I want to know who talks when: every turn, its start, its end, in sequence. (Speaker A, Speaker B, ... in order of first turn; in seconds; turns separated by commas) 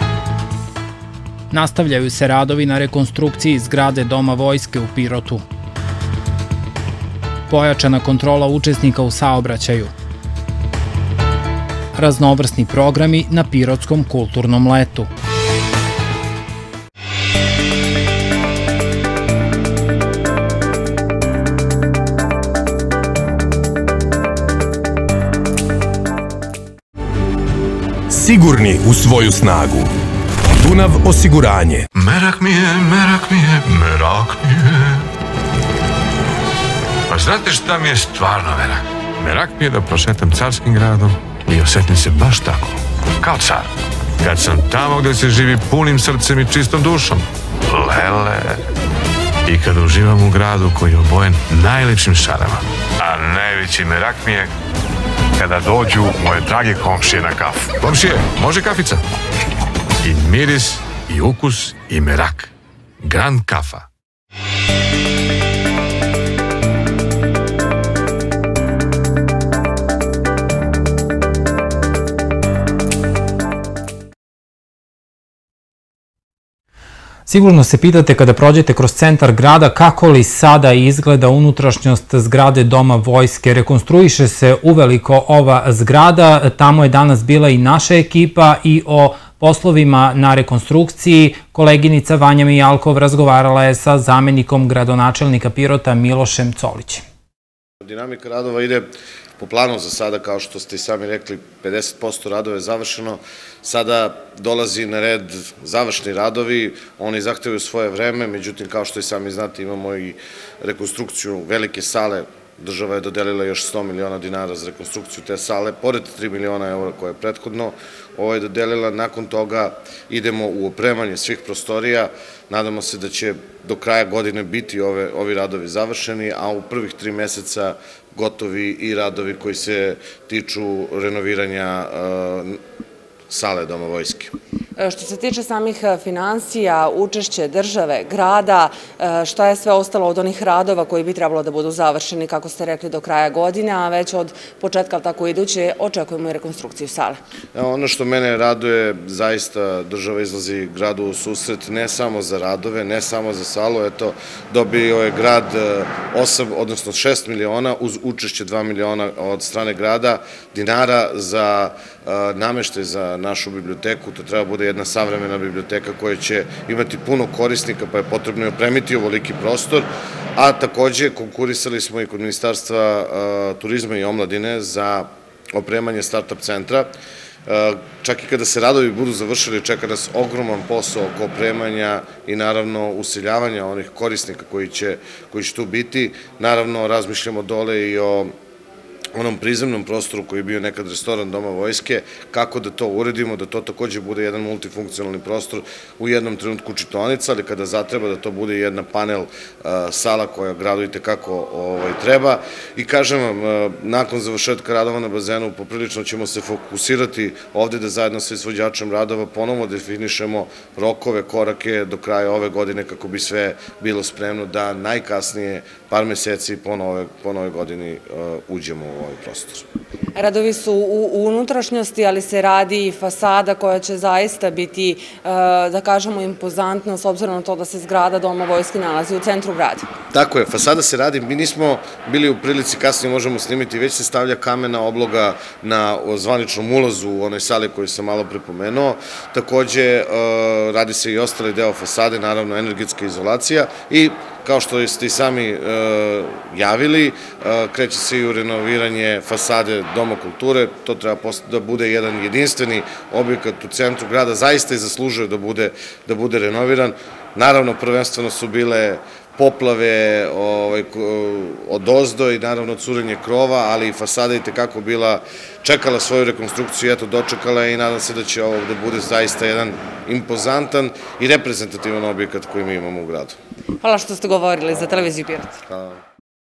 Speaker A: 1.5-5.4, Speaker A: 7.5-9.9, Speaker A: 11.9-15.1, Speaker B: 28.1-29.9, Speaker B: 30.6-31.9, Speaker C: 31.9-35.1, Speaker C: 37.1-48.6, Speaker C: 49.5-54.5, Speaker C: 55.4-59.0, Speaker C: 60.0-63.9, Speaker A: 77.3-97.0, Speaker D: 97.8-98.9, Speaker D: 99.4-132.6, Speaker D: 133.3-134.3, Speaker E: 134.8-147.2, Speaker D: 147.5-176.9, Speaker D: 177.5-188.3, Speaker D: 189.2-219.7, Speaker E: 220.2-229.9, Speaker D: 230.1-273.4, Speaker E: 273.8-275.6, Speaker D: 275.7-276.0